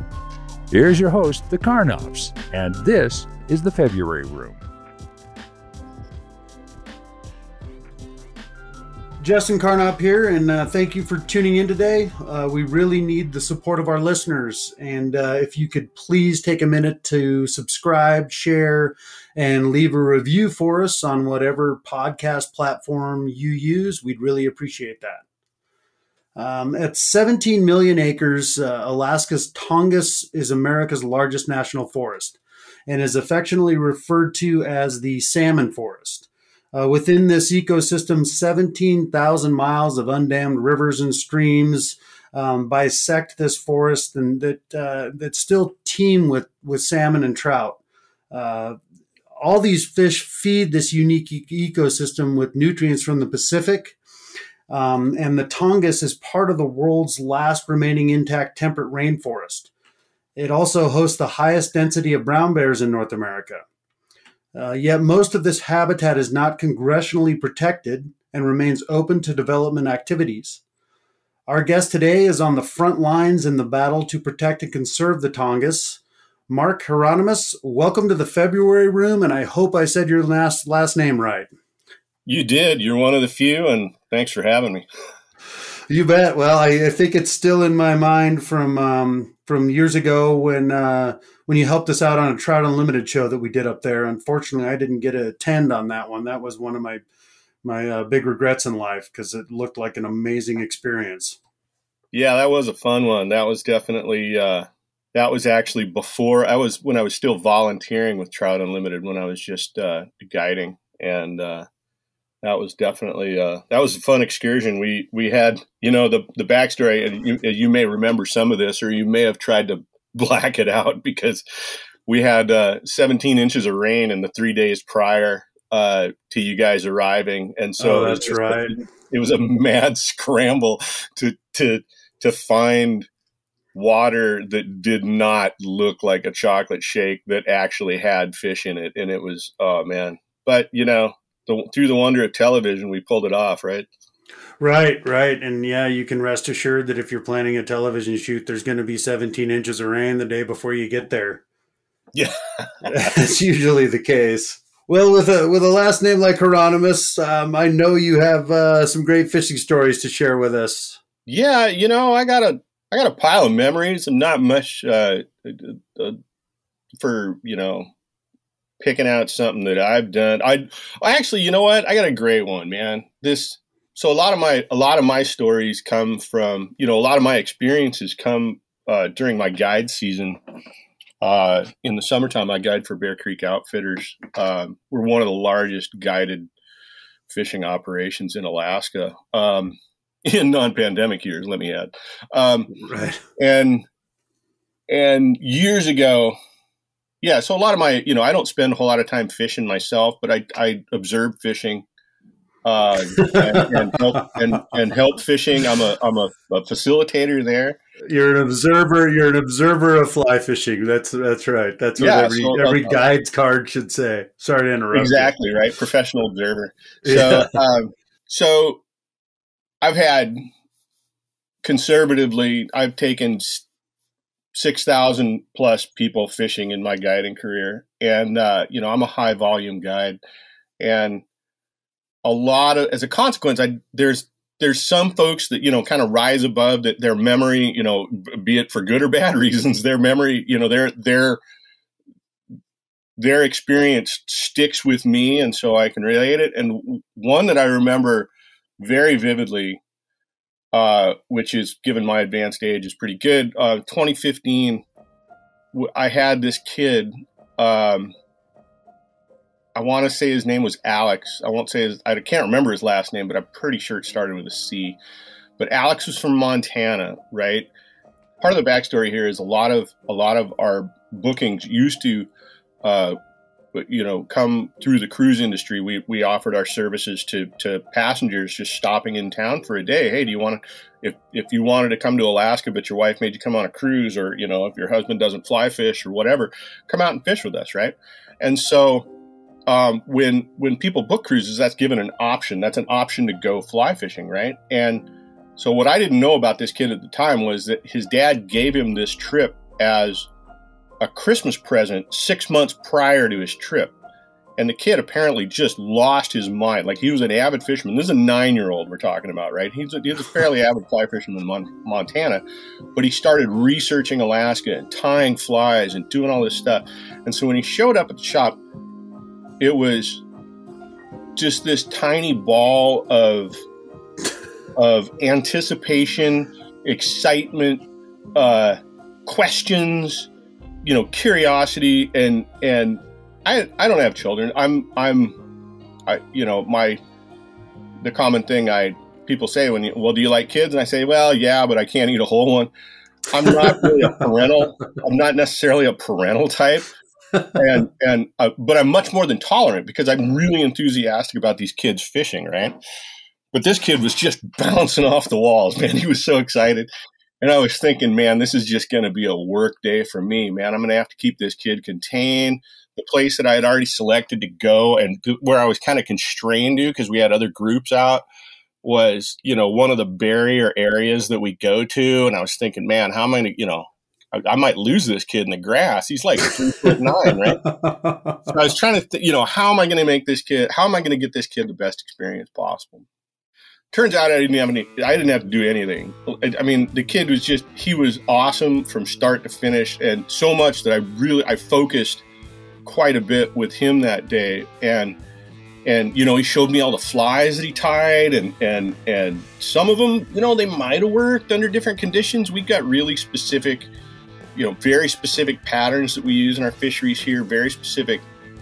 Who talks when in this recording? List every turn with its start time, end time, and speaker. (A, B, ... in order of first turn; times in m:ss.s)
0:00.7-0:04.6 A
0:09.2-0:25.2 B
0:26.4-0:47.8 B
0:48.3-0:48.8 B
0:49.4-0:54.0 B
0:54.7-0:59.7 B
1:00.4-1:03.6 B
1:04.5-1:10.6 B
1:11.5-1:21.5 B
1:22.2-1:24.8 C
1:25.9-1:37.0 B
1:37.6-1:41.4 B
1:42.1-1:51.6 C
1:52.4-2:13.1 C
2:07.8-2:08.8 B
2:13.7-2:23.9 C
2:24.6-2:31.4 B
2:32.1-2:32.9 C
2:32.8-2:41.0 B
2:41.3-2:46.2 C
2:47.0-2:47.9 C
2:48.8-3:00.4 C
3:01.2-3:06.5 C
3:07.3-3:12.7 C
3:12.7-3:13.2 B
3:13.4-3:13.9 C
3:14.9-3:16.4 C
3:17.2-3:21.9 C
3:22.6-3:27.8 C
3:23.1-3:24.3 B
3:28.0-3:35.3 B
3:32.0-3:33.0 C
3:34.9-3:38.8 C
3:37.0-3:37.6 B
3:39.8-3:40.4 C
3:41.6-3:43.6 C
3:44.5-3:50.2 C
3:50.8-3:51.2 C
3:52.2-4:01.4 C
4:03.2-4:09.8 C
4:10.7-4:14.8 C
4:15.7-4:18.1 C
4:19.8-4:25.0 C
4:25.6-4:27.7 C
4:28.4-4:32.3 C
4:32.8-4:33.2 C
4:33.7-4:49.1 C
4:49.7-5:00.3 C
5:01.0-5:03.9 C
5:04.6-5:12.4 C
5:12.9-5:18.6 C
5:19.6-5:20.2 C
5:21.4-5:23.6 C
5:24.8-5:30.3 C
5:30.8-5:35.4 C
5:36.1-5:37.0 C
5:38.0-5:42.7 C
5:43.3-5:46.9 C
5:47.5-5:52.8 C
5:53.5-5:56.9 C
5:57.4-6:08.2 C
6:08.8-6:17.6 C
6:16.4-6:18.5 B
6:18.5-6:23.1 C
6:23.9-6:32.2 C
6:32.8-6:35.2 C
6:35.8-6:43.9 C
6:44.5-6:48.2 C